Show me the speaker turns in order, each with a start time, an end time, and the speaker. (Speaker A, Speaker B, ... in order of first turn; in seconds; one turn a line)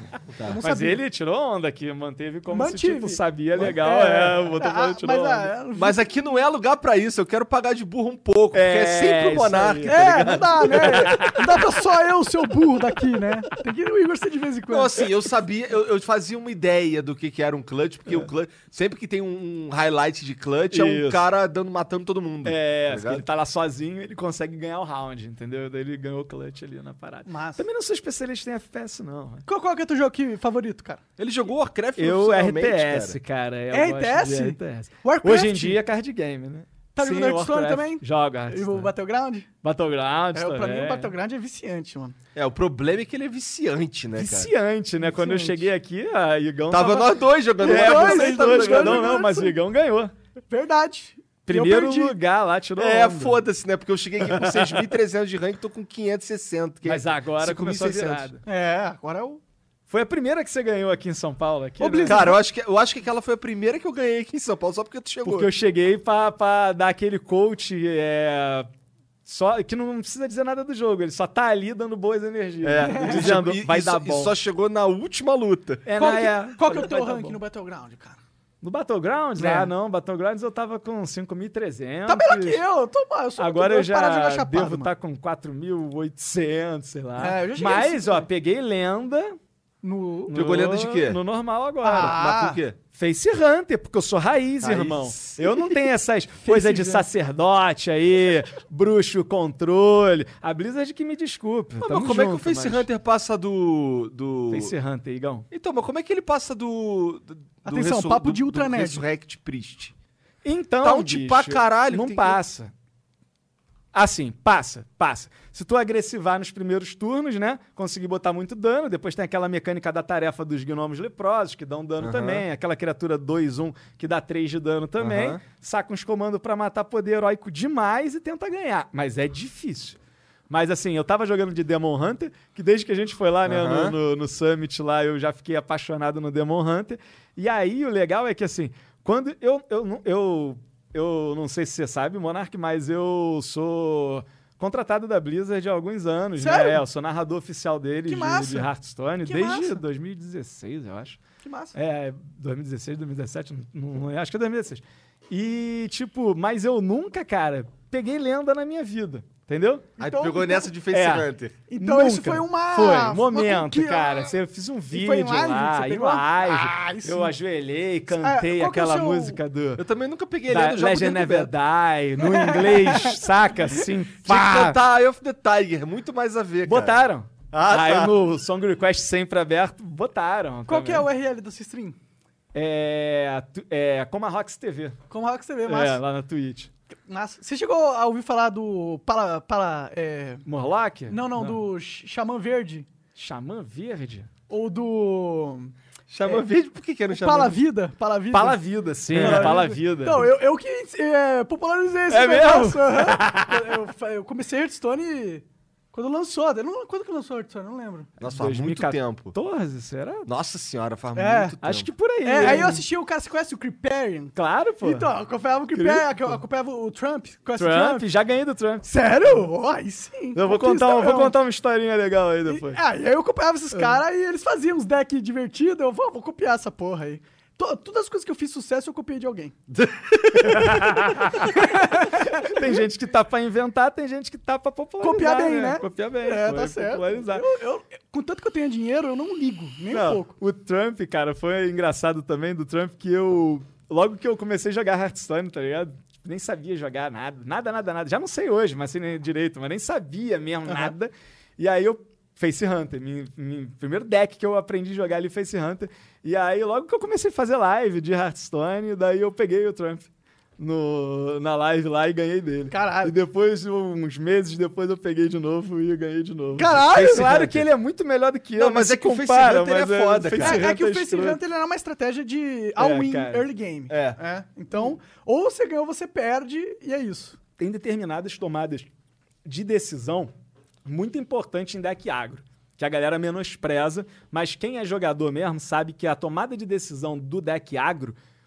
Speaker A: 0.3-0.6
Speaker B: 0.4-1.0
Speaker C: 0.6-5.5
Speaker B: 2.5-6.0
Speaker A: 5.7-11.2
Speaker C: 8.5-11.7
Speaker B: 9.8-15.1
Speaker A: 14.7-23.2
Speaker C: 20.7-21.2
Speaker C: 22.4-29.4
Speaker B: 27.3-27.6
Speaker B: 29.5-31.0
Speaker A: 31.2-33.2
Speaker C: 32.0-38.9
Speaker B: 33.7-35.8
Speaker B: 36.9-39.5
Speaker C: 39.6-41.1
Speaker B: 40.3-42.1
Speaker A: 42.3-44.5
Speaker C: 44.1-50.1
Speaker B: 45.0-45.7
Speaker A: 46.7-49.2
Speaker B: 47.6-49.5
Speaker B: 50.5-52.1
Speaker C: 51.5-53.4
Speaker A: 52.8-58.3
Speaker C: 56.8-58.4
Speaker B: 58.5-59.4
Speaker C: 59.9-62.3
Speaker B: 61.8-62.4
Speaker A: 62.0-65.5
Speaker C: 65.2-68.7
Speaker C: 69.2-74.3
Speaker A: 72.6-75.8
Speaker B: 72.8-73.3
Speaker C: 75.8-77.4
Speaker B: 76.0-78.2
Speaker C: 78.6-82.6
Speaker B: 79.4-79.7
Speaker B: 82.1-84.9
Speaker C: 83.4-89.3
Speaker B: 87.2-88.2
Speaker B: 89.8-90.3
Speaker C: 90.3-92.2
Speaker A: 90.3-91.2
Speaker B: 91.8-92.6
Speaker A: 91.9-92.8
Speaker C: 92.9-102.8
Speaker A: 94.6-95.7
Speaker B: 96.4-97.0
Speaker A: 101.8-104.7
Speaker C: 104.5-105.5
Speaker A: 105.5-109.9
Speaker B: 107.6-109.0
Speaker C: 110.4-112.7
Speaker A: 110.8-112.4
Speaker C: 113.9-130.0
Speaker A: 122.0-122.4
Speaker A: 125.0-125.4
Speaker C: 130.5-151.2
Speaker A: 133.4-133.9
Speaker B: 146.4-146.8
Speaker B: 148.1-148.7
Speaker B: 149.2-149.8
Speaker B: 151.4-151.8
Speaker C: 151.7-159.9
Speaker B: 160.0-160.7
Speaker A: 160.0-161.6
Speaker C: 160.9-161.3
Speaker B: 161.7-164.3
Speaker C: 161.8-169.8
Speaker B: 164.9-167.3
Speaker B: 168.1-169.4
Speaker A: 169.8-171.5
Speaker C: 170.5-174.8
Speaker B: 172.2-173.9
Speaker A: 174.2-177.0
Speaker C: 176.7-181.1
Speaker A: 177.5-178.2
Speaker B: 180.7-182.0
Speaker C: 182.5-185.0
Speaker B: 185.1-186.0
Speaker C: 185.7-186.7
Speaker B: 187.1-190.4
Speaker C: 190.4-191.6
Speaker B: 191.1-192.9
Speaker C: 193.1-194.3
Speaker B: 194.5-195.7
Speaker A: 196.1-197.6
Speaker B: 197.1-208.1
Speaker C: 198.3-200.3
Speaker A: 199.1-199.6
Speaker C: 202.1-203.7
Speaker A: 208.2-209.3
Speaker C: 208.2-210.3
Speaker A: 210.2-212.7
Speaker B: 211.1-211.5
Speaker C: 211.6-212.8
Speaker B: 212.2-218.0
Speaker C: 214.3-215.1
Speaker C: 215.7-216.4
Speaker C: 217.6-219.4
Speaker B: 218.9-221.3
Speaker C: 220.3-222.8
Speaker B: 222.5-229.6
Speaker A: 229.7-230.9
Speaker C: 230.3-237.4
Speaker B: 231.4-232.8
Speaker B: 235.0-240.3
Speaker C: 239.9-271.4
Speaker B: 250.7-250.9
Speaker B: 262.7-263.1
Speaker B: 266.6-267.4
Speaker A: 266.9-267.7
Speaker A: 268.6-270.6
Speaker B: 270.4-277.4
Speaker C: 272.8-273.4
Speaker A: 273.9-274.2
Speaker C: 277.6-278.9
Speaker C: 279.4-280.3
Speaker C: 280.9-288.1